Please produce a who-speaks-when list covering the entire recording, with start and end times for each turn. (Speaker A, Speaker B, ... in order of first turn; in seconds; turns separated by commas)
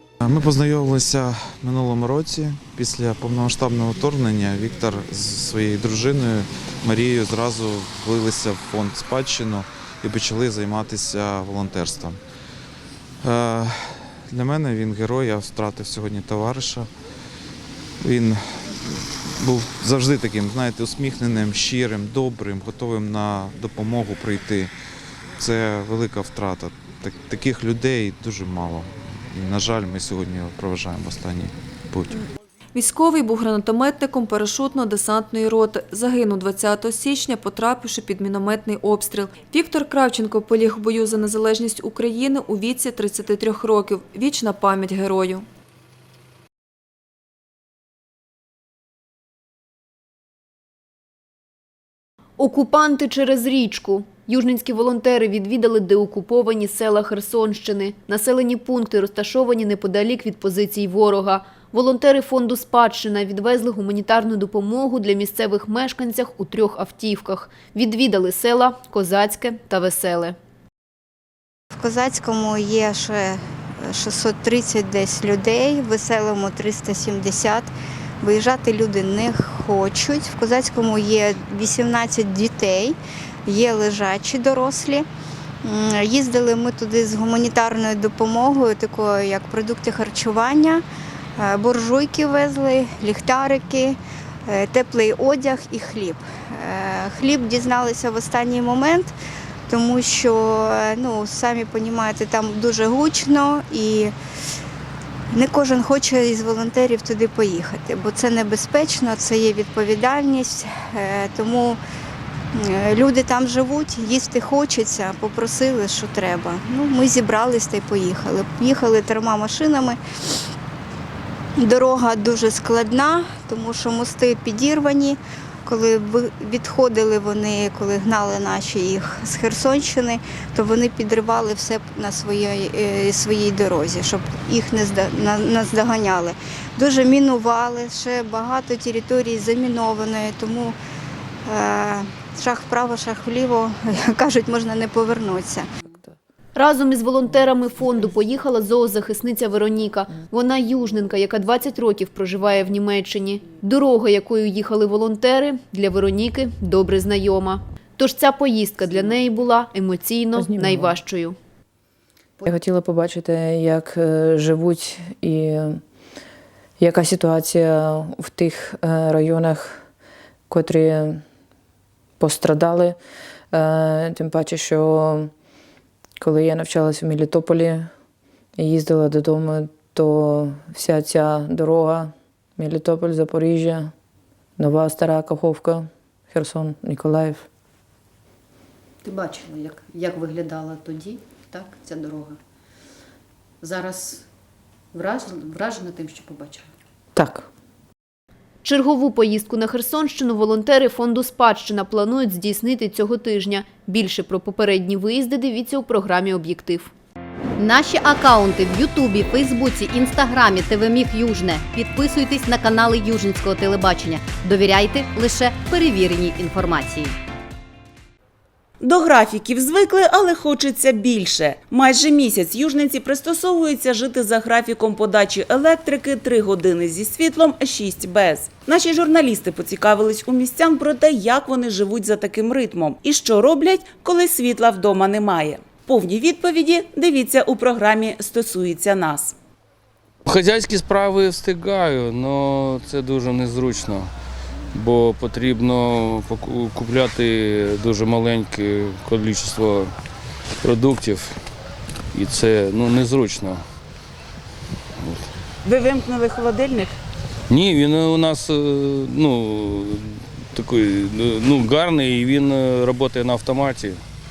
Speaker A: 0.2-12.2, Speaker A: 13.2-16.9, Speaker A: 18.0-24.7, Speaker A: 25.4-32.2, Speaker B: 32.7-45.5, Speaker C: 52.4-70.4, Speaker D: 71.8-77.7, Speaker D: 78.2-85.0, Speaker D: 85.6-90.8, Speaker D: 91.4-99.1, Speaker D: 99.7-104.1, Speaker D: 105.3-111.8, Speaker D: 112.6-120.0, Speaker D: 121.6-140.8, Speaker D: 141.4-145.7, Speaker C: 146.6-161.3, Speaker E: 160.3-160.9, Speaker E: 162.5-165.8, Speaker E: 166.8-169.8, Speaker E: 170.5-171.2, Speaker E: 172.2-173.0, Speaker E: 173.5-175.3, Speaker E: 176.2-177.9, Speaker E: 178.6-183.9, Speaker E: 184.6-187.4, Speaker F: 189.0-192.4, Speaker F: 193.6-194.2, Speaker F: 194.9-196.7, Speaker E: 197.1-197.5, Speaker C: 198.6-206.9, Speaker F: 207.6-217.0, Speaker G: 218.8-239.3, Speaker H: 240.2-244.1, Speaker H: 244.7-249.9, Speaker H: 250.6-251.3, Speaker H: 252.1-253.6, Speaker H: 255.0-255.3, Speaker G: 255.6-256.9, Speaker H: 257.5-264.0